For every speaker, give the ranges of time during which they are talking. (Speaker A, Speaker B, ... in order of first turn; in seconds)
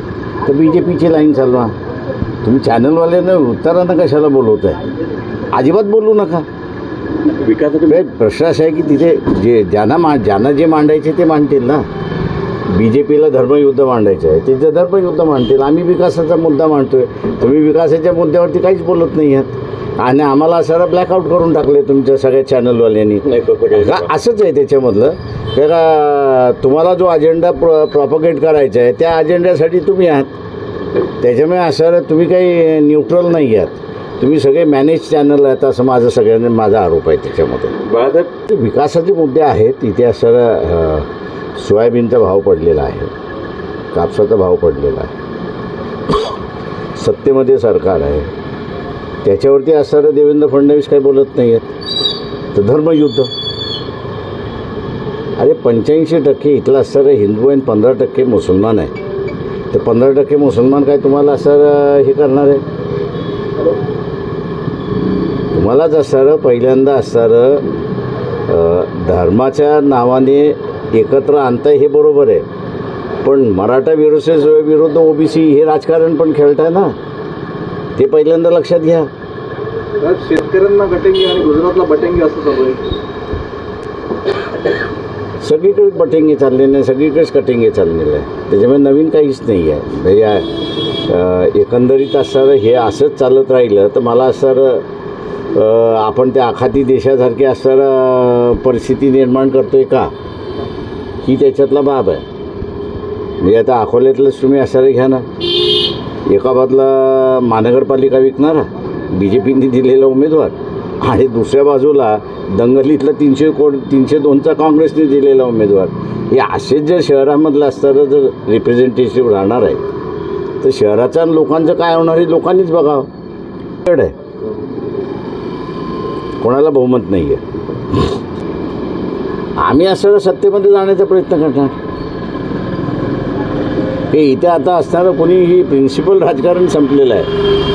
Speaker A: 0.5-1.7, 2.4-4.8, 5.5-6.5, 7.9-11.8, 12.7-30.3, 31.2-37.8, 38.5-43.1, 43.9-45.1, 47.0-48.3, 49.2-51.7, 52.5-53.3, 55.4-58.9, 59.7-62.6, 65.5-67.6, 68.5-72.5, 73.2-76.9, 78.0-79.1, 85.4-90.5, 91.0-94.8, 95.5-100.1, 101.2-102.2, 103.4-105.3, 106.3-119.8, 120.6-123.1, 123.8-124.1, 126.4-127.4, 129.6-131.7, 134.1-137.3
Speaker B: 7.4-8.1, 23.2-24.1, 37.9-38.3
Speaker C: 80.0-82.8